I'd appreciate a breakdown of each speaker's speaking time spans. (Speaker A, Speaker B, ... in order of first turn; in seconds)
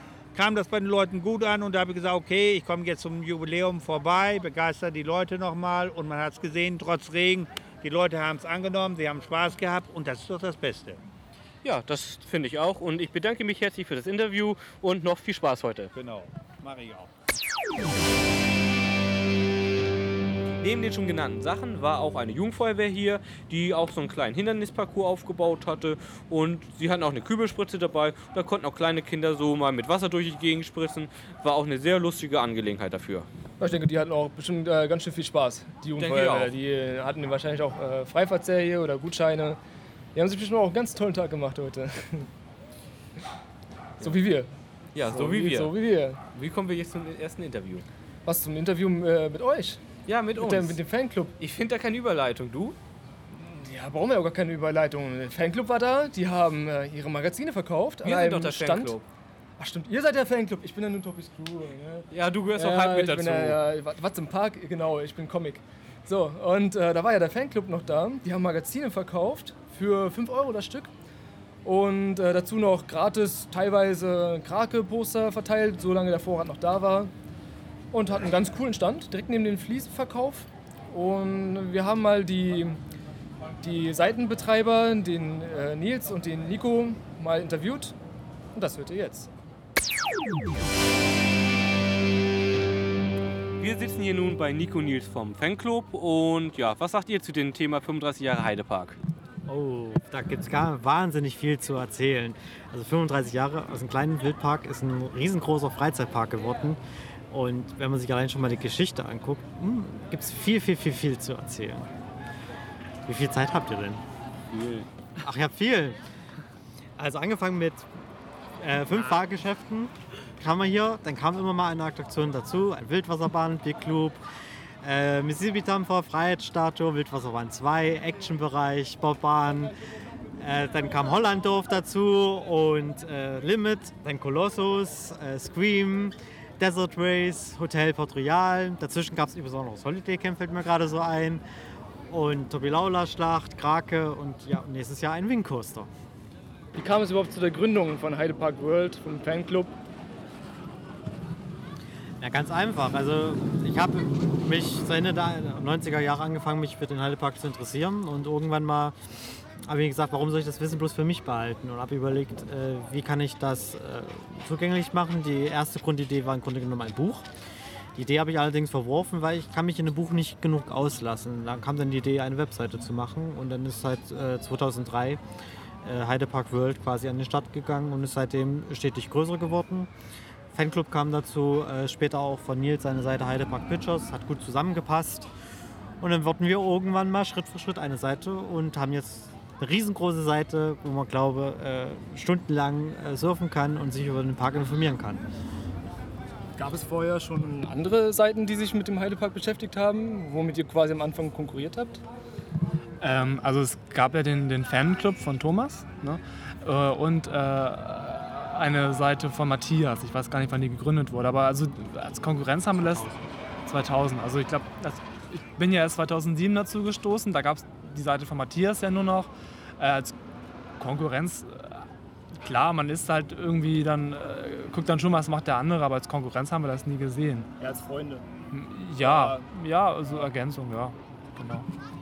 Speaker A: 0.3-11.0, 15.9-17.1
Speaker B: 11.6-15.9, 20.6-33.3, 36.0-36.5, 45.0-45.7, 46.3-47.9, 50.1-50.8, 51.4-52.8, 58.0-59.0, 62.1-63.6, 93.6-99.0, 114.5-114.9
Speaker C: 33.6-39.6, 40.1-42.3, 44.0-44.5, 45.1-46.2, 48.2-49.8, 50.4-51.4, 53.3-59.0, 59.6-70.9, 71.6-77.1, 77.9-82.8, 83.6-88.0, 88.5-89.3, 146.8-149.7, 196.6-202.0, 227.6-228.2, 229.0-229.4
Speaker D: 99.5-111.9, 113.1-114.0, 115.2-116.0, 117.0-117.9, 118.6-124.2, 124.8-129.8, 130.4-141.4, 142.1-145.9, 152.2-159.0, 159.6-167.3, 168.0-175.2, 175.8-179.9, 180.5-185.3, 186.0-195.2, 212.8-213.2
Speaker E: 203.0-213.1, 213.7-220.1, 220.8-227.5, 228.5-231.7